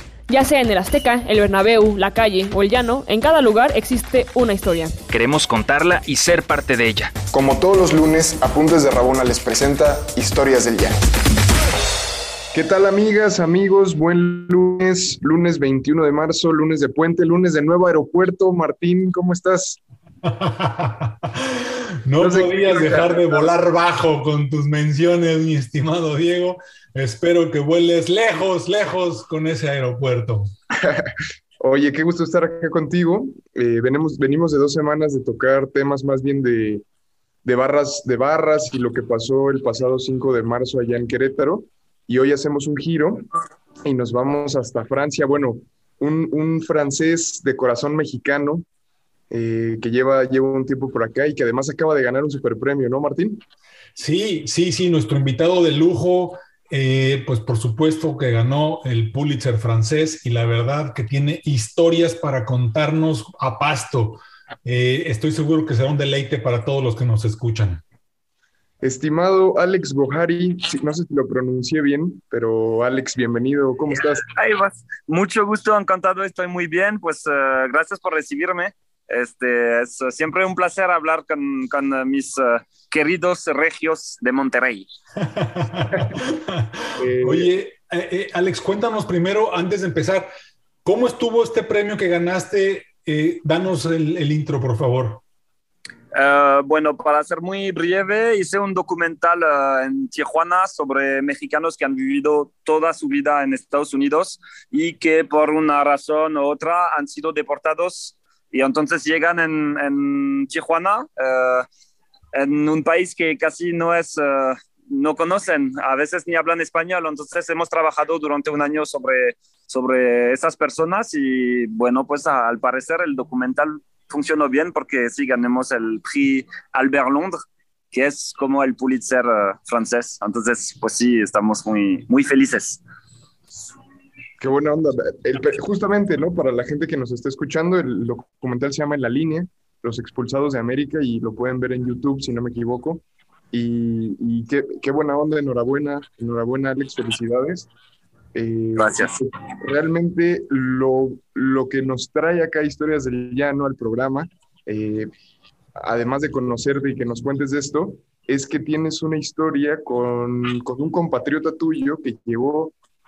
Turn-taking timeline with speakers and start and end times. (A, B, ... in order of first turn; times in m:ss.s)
0:00.3-0:04.9 A
0:05.1-0:07.1 B
0:07.3-0:11.0 C
0:12.5-0:19.8 C
0:20.2-0:21.1 D
0:22.0-0:30.5 D
0:22.2-0:23.5 C
0:31.6-0:36.8 C
0:37.4-0:43.2 C
0:43.8-0:48.6 C
0:49.3-0:53.4 C
0:54.0-1:07.8 D
1:08.8-1:14.2 C
1:14.3-1:24.9 E
1:25.4-1:26.3 D
1:27.0-1:27.5 C
1:27.2-1:30.3 D
1:30.8-1:35.2 D
1:36.1-1:51.6 E
1:52.3-2:07.4 E
2:07.9-2:12.8 E
2:14.4-2:27.7 C
2:28.3-2:35.1 C
2:28.8-2:29.1 E
2:35.8-2:42.7 C